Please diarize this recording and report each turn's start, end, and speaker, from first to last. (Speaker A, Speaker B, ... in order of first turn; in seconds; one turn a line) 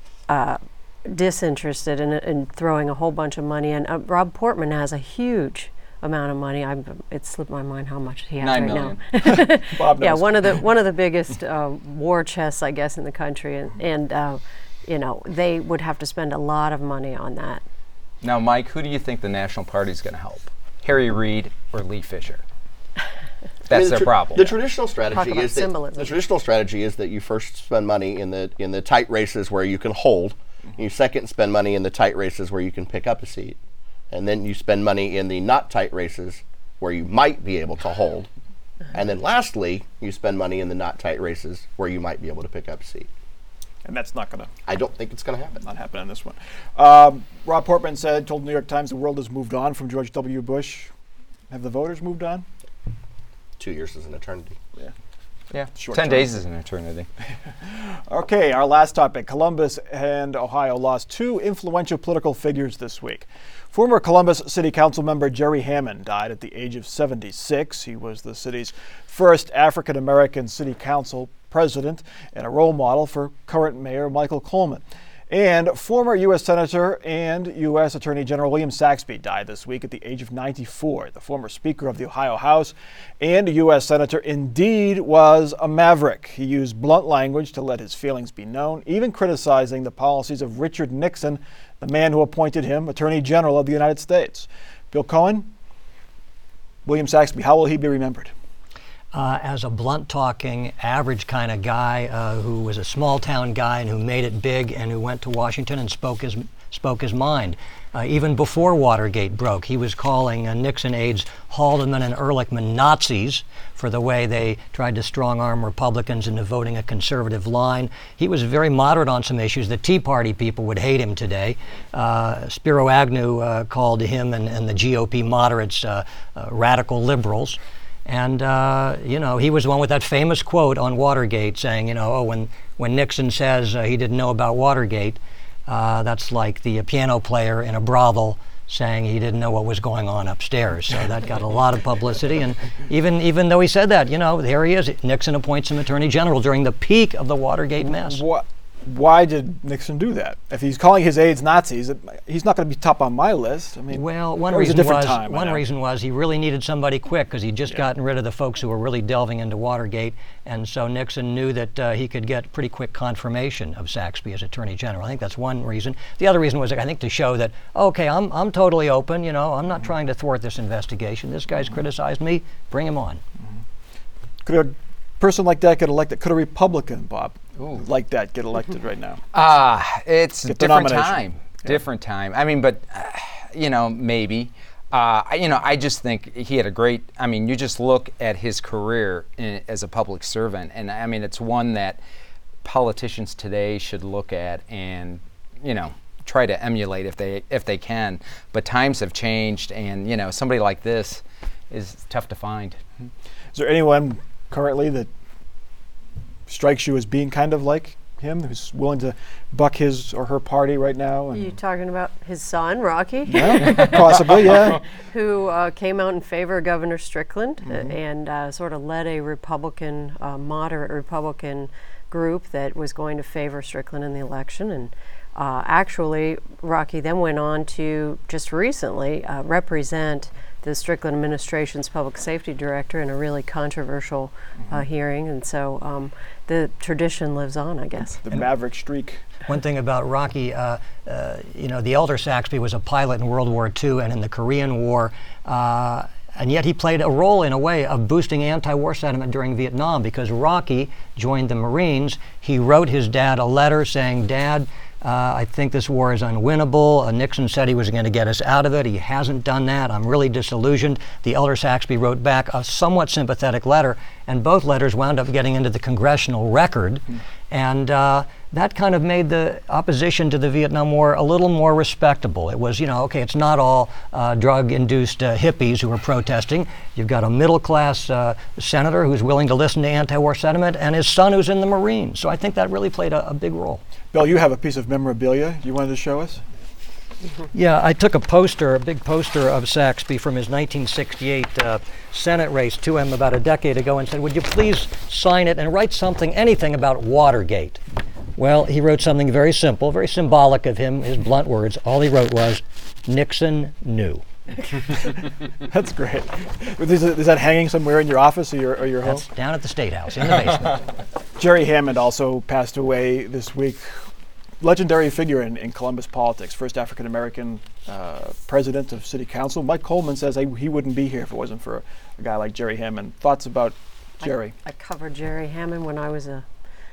Speaker A: 0.3-17.6
Speaker B: 8.4-9.0
Speaker C: 9.2-10.6
Speaker B: 18.2-22.4
Speaker B: 23.7-24.6
Speaker D: 23.7-33.6
Speaker A: 25.1-26.2
Speaker D: 34.1-38.3
Speaker D: 38.9-43.1
Speaker C: 43.8-44.5
Speaker D: 44.7-45.6
Speaker C: 45.6-50.9
Speaker C: 51.5-52.5
Speaker D: 53.6-54.6
Speaker B: 55.5-57.1
Speaker C: 55.7-56.3
Speaker C: 57.6-95.5
Speaker C: 96.8-98.3
Speaker E: 99.1-148.2
Speaker C: 147.9-155.6
Speaker E: 153.9-173.2
Speaker C: 174.4-179.2
Speaker B: 179.3-192.0
Speaker C: 180.4-181.2
Speaker B: 192.6-202.8
Speaker C: 203.5-205.1
Speaker C: 206.5-211.5
Speaker A: 211.3-214.0
Speaker C: 213.3-214.8
Speaker A: 214.8-238.2
Speaker C: 217.7-217.9
Speaker C: 238.2-239.2
Speaker E: 239.5-283.8
Speaker C: 284.1-286.4
Speaker E: 287.5-297.8
Speaker E: 298.4-304.2
Speaker C: 305.6-309.2
Speaker E: 309.0-310.8
Speaker C: 311.4-314.1
Speaker C: 314.6-324.5
Speaker A: 324.2-326.4